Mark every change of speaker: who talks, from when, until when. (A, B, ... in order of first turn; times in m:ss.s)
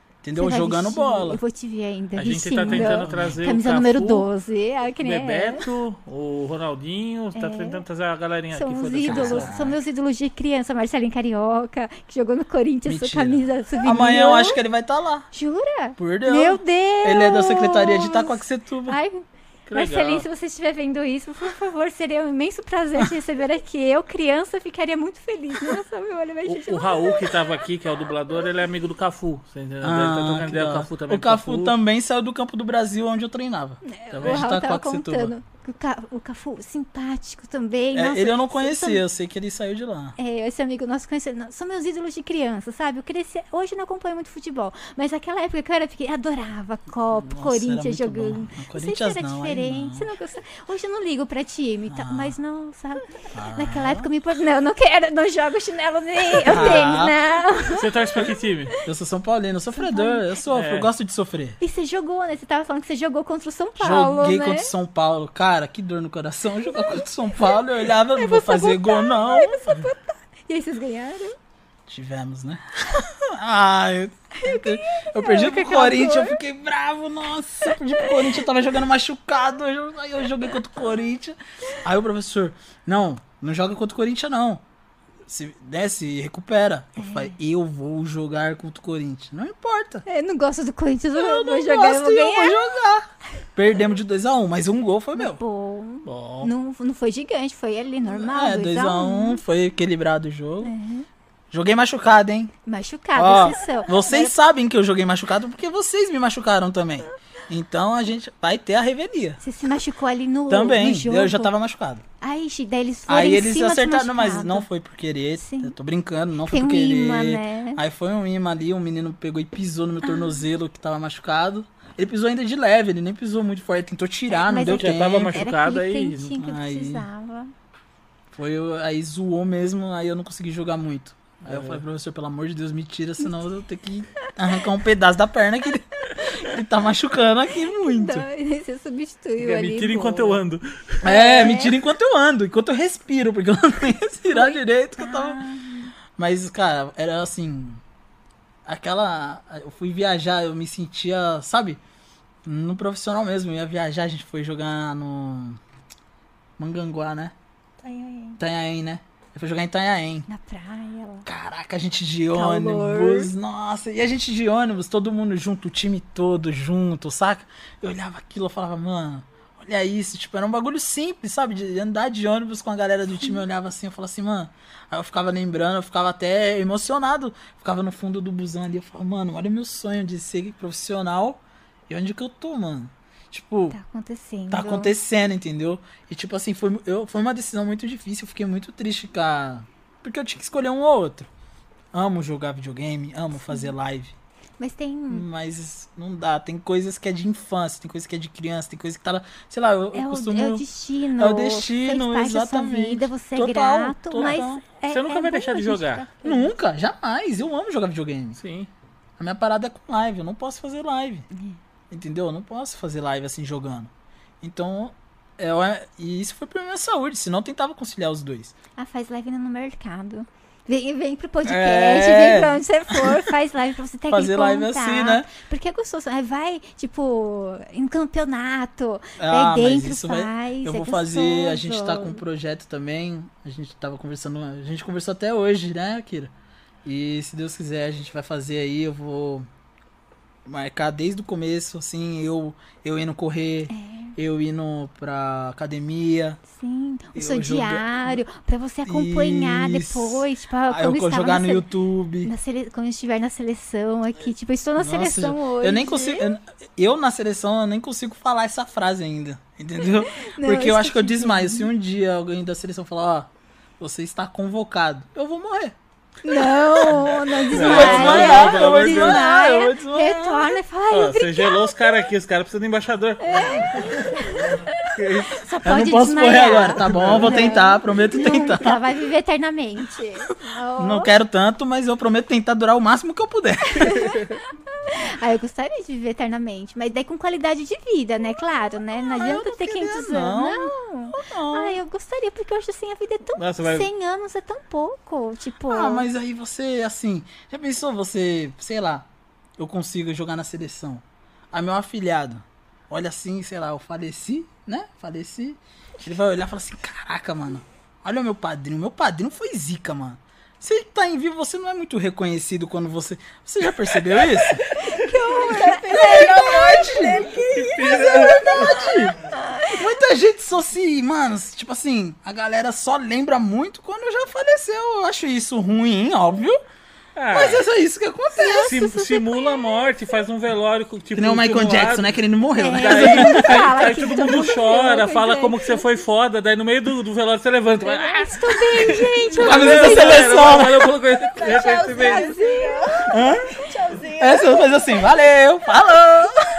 0:00.2-0:01.4 A
0:00.4-0:05.6 B
0:02.2-0:04.3 C
0:02.6-0:03.4 A
0:05.0-0:09.6 C
0:07.4-0:07.8 B
0:08.5-0:14.6 B
0:09.0-0:09.8 A
0:12.9-0:15.3 A
0:15.3-0:27.2 B
0:16.0-0:19.0 A
0:19.7-0:20.3 C
0:26.4-0:31.7 C
0:29.8-0:35.3 A
0:33.8-0:39.0 B
0:34.1-0:34.5 C
0:37.9-0:40.2 A
0:40.2-0:58.8 B
0:47.2-0:50.1 A
0:51.9-0:52.4 A
0:53.3-0:54.1 A
0:56.4-0:57.2 A
0:56.5-0:56.8 C
0:57.6-0:58.7 C
0:58.8-1:01.6 A
0:59.7-1:00.2 B
1:00.5-1:00.9 C
1:01.6-1:04.7 B
1:03.8-1:09.9 A
1:08.1-1:11.4 B
1:11.9-1:24.6 A
1:14.4-1:16.4 B
1:17.7-1:18.4 B
1:25.3-1:30.0 A
1:27.0-1:27.4 B
1:30.1-1:32.7 B
1:31.2-1:35.4 A
1:35.2-1:39.4 B
1:36.1-1:36.5 C
1:38.1-1:40.7 A
1:40.6-1:41.1 B
1:41.5-1:42.5 A
1:42.7-1:44.3 B
1:43.2-1:49.4 A
1:49.4-1:51.5 B
1:50.5-1:52.0 A
1:52.2-1:54.7 B
1:53.1-2:05.4 A
1:55.4-1:55.8 B
1:56.5-1:57.8 B
2:00.0-2:00.4 B
2:04.3-2:07.5 B
2:04.6-2:06.4 C
2:06.4-2:07.0 A
2:08.3-2:18.3 A
2:11.4-2:11.8 C
2:16.1-2:16.5 B
2:17.5-2:20.4 B
2:19.4-2:21.0 C
2:21.0-2:21.8 B
2:21.0-2:25.4 A
2:24.3-2:25.9 B
2:26.2-2:27.8 A
2:28.7-2:31.8 A
2:32.5-2:35.6 A
2:36.6-2:37.3 A
2:37.8-2:38.4 D
2:38.4-2:40.3 A
2:40.3-2:41.3 B
2:41.3-3:03.8 A
2:42.3-2:43.3 B
3:03.7-3:04.9 B
3:04.5-3:11.3 A
3:11.9-3:14.2 A
3:14.6-3:15.3 B
3:15.1-3:20.6 A
3:19.9-3:26.5 B
3:21.2-3:24.6 A
3:24.9-3:26.1 C
3:26.2-3:28.4 A
3:28.4-3:28.7 C
3:29.2-3:31.3 A
3:31.9-3:38.5 A
3:38.8-3:52.2 B
3:41.4-3:43.3 A
3:44.1-3:45.3 A
3:49.2-3:56.3 A
3:56.8-3:59.5 A
4:00.5-4:06.4 A
4:03.7-4:04.2 B
4:06.5-4:11.6 B
4:07.2-4:08.2 A
4:08.9-4:12.3 A
4:12.2-4:16.3 B
4:14.8-4:25.8 A
4:20.2-4:21.7 B
4:26.2-4:32.1 B
4:26.3-4:30.6 A
4:27.5-4:29.2 C
4:30.9-4:34.0 C
4:33.2-4:41.1 B
4:34.9-4:35.4 C
4:35.6-4:38.8 A
4:36.8-4:37.4 C
4:40.8-4:44.2 A
4:44.8-4:56.1 B
4:48.9-4:51.8 A
4:53.4-4:53.9 C
4:55.7-5:14.6 A
5:14.3-5:14.8 C
5:14.8-5:16.9 B
5:15.3-5:19.1 D
5:15.9-5:17.3 A
5:17.5-5:18.8 C
5:17.9-5:19.2 A
5:19.3-5:19.8 B
5:19.7-5:26.6 A
5:27.2-5:27.6 C
5:27.3-5:28.8 A
5:28.3-5:29.8 B
5:28.6-5:42.4 C
5:31.2-5:33.9 A
5:32.6-5:35.9 B
5:37.8-5:40.7 B
5:39.4-5:40.9 A
5:41.2-5:45.0 D
5:41.5-5:43.7 B
5:43.1-5:43.5 A
5:44.2-5:46.5 A